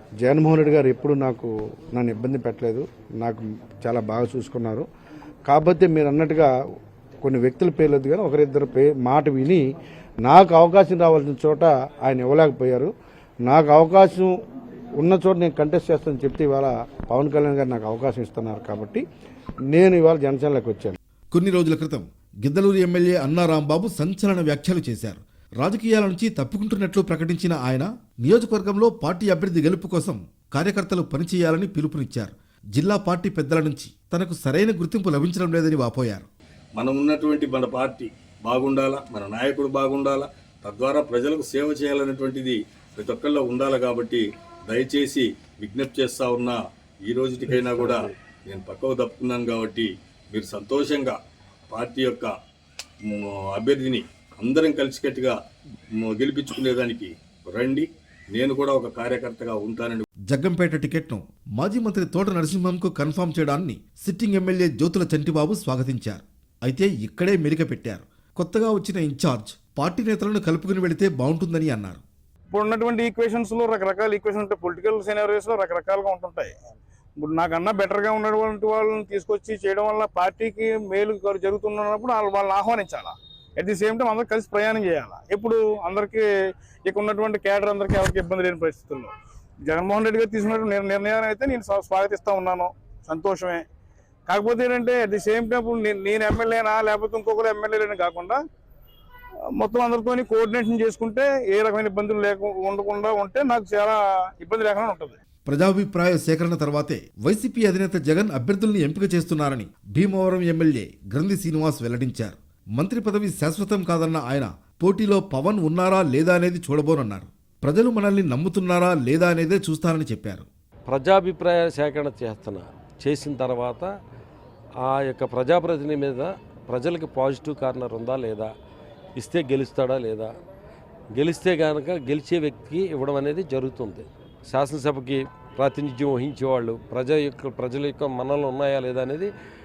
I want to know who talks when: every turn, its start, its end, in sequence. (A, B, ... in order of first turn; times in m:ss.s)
0:00.2-0:04.9 A
0:05.4-0:06.5 A
0:07.2-0:09.6 A
0:10.2-0:12.9 A
0:13.4-0:14.3 A
0:15.0-0:19.0 A
0:19.7-0:21.0 A
0:21.3-0:36.3 B
0:36.8-0:51.2 C
0:51.7-0:52.3 C
0:53.0-0:55.4 C
0:56.0-1:00.0 C
1:00.3-1:12.0 B
1:12.5-1:16.5 D
1:17.2-1:26.2 D
1:26.8-1:29.1 D
1:29.6-1:33.6 D
1:34.3-1:38.4 D
1:39.5-1:45.2 D
1:45.4-2:00.5 B
2:00.9-2:03.9 E
2:04.8-2:08.5 E
2:09.2-2:10.3 E
2:11.1-2:19.3 E